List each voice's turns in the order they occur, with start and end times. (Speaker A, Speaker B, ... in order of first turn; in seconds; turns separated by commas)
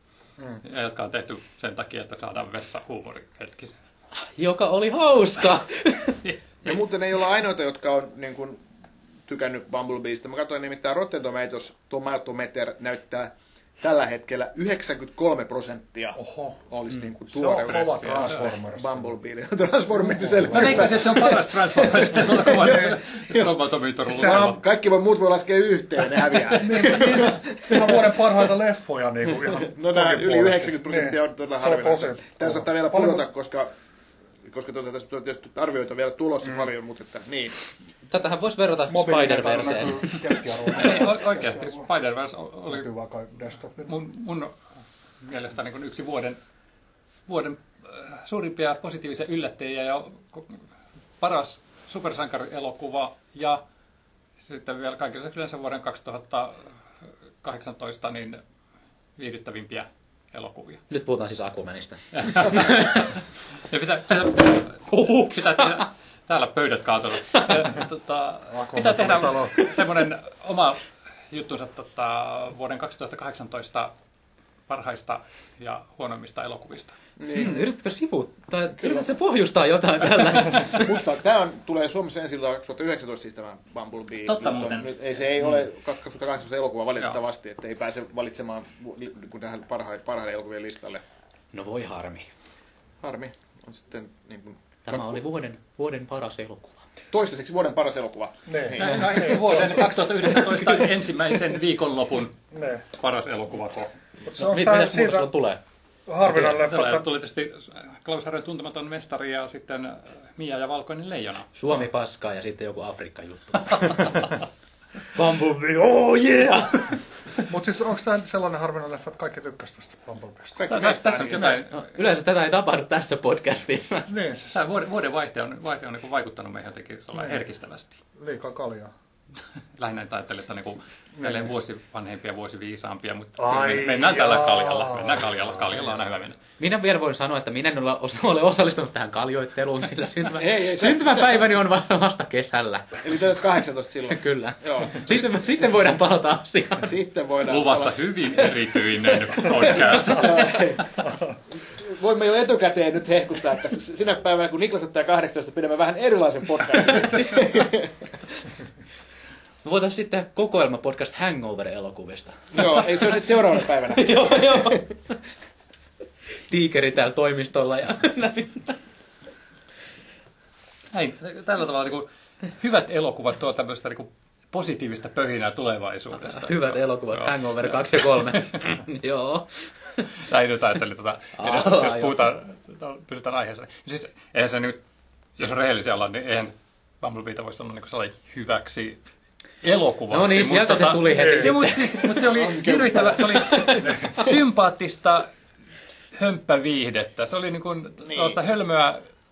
Speaker A: 0.6-3.8, Speaker B: 4.2-6.2, Speaker A: 6.2-6.8, Speaker C: 6.7-8.6, Speaker C: 9.3-16.2, Speaker D: 16.2-16.7, Speaker C: 16.7-23.6, Speaker D: 17.3-19.2, Speaker A: 17.4-18.5, Speaker D: 19.9-21.3, Speaker A: 20.5-24.6, Speaker D: 22.2-22.9, Speaker D: 24.1-24.6, Speaker C: 24.1-28.5, Speaker A: 26.6-27.1, Speaker D: 26.6-33.3, Speaker C: 29.4-33.7, Speaker C: 34.5-37.5, Speaker D: 36.4-36.7, Speaker B: 38.1-40.1, Speaker D: 38.9-41.9, Speaker A: 40.8-42.9, Speaker D: 42.7-44.0, Speaker A: 43.9-44.5, Speaker A: 45.2-46.4, Speaker A: 47.3-50.6, Speaker A: 51.2-53.6, Speaker A: 54.4-56.6, Speaker A: 57.4-58.4, Speaker A: 59.2-60.8, Speaker B: 60.9-63.1, Speaker A: 62.1-63.2, Speaker A: 63.7-73.9, Speaker B: 64.9-65.8, Speaker D: 68.5-69.7, Speaker A: 74.7-76.9, Speaker C: 77.2-77.7, Speaker B: 77.3-80.8, Speaker C: 78.8-79.1, Speaker C: 80.5-91.0, Speaker A: 84.3-84.9, Speaker B: 91.5-92.3, Speaker C: 93.0-95.2, Speaker B: 94.9-96.8, Speaker C: 97.1-99.6, Speaker D: 98.5-100.8, Speaker A: 98.8-102.4, Speaker D: 102.5-102.8, Speaker A: 103.0-103.9, Speaker D: 104.2-105.3, Speaker B: 104.4-105.6, Speaker D: 106.1-107.1, Speaker A: 106.3-111.5, Speaker B: 111.5-114.3, Speaker B: 115.1-117.0, Speaker D: 117.4-120.8, Speaker C: 120.6-121.5, Speaker A: 120.7-121.8, Speaker D: 121.3-121.6, Speaker B: 121.7-124.1, Speaker D: 124.1-124.6, Speaker A: 124.5-128.0, Speaker D: 127.2-127.4, Speaker D: 128.2-128.9, Speaker A: 129.8-136.4, Speaker D: 131.2-131.5, Speaker D: 133.4-135.9, Speaker B: 136.6-142.9, Speaker C: 140.4-141.5, Speaker C: 143.0-145.9, Speaker B: 144.1-147.0, Speaker C: 146.8-148.5, Speaker A: 147.5-150.6, Speaker D: 149.6-150.1, Speaker C: 149.8-151.0, Speaker D: 151.0-151.4, Speaker C: 151.6-157.9, Speaker B: 159.6-163.0, Speaker C: 162.5-164.9, Speaker B: 163.9-164.8, Speaker B: 166.5-168.8, Speaker A: 170.9-178.7, Speaker B: 176.3-180.0, Speaker A: 180.2-184.8, Speaker B: 181.4-182.3, Speaker A: 185.4-189.0, Speaker A: 189.6-195.3, Speaker B: 190.1-192.1, Speaker D: 191.1-191.6, Speaker C: 192.2-194.0, Speaker D: 193.8-194.2, Speaker A: 196.2-199.0, Speaker C: 198.1-198.4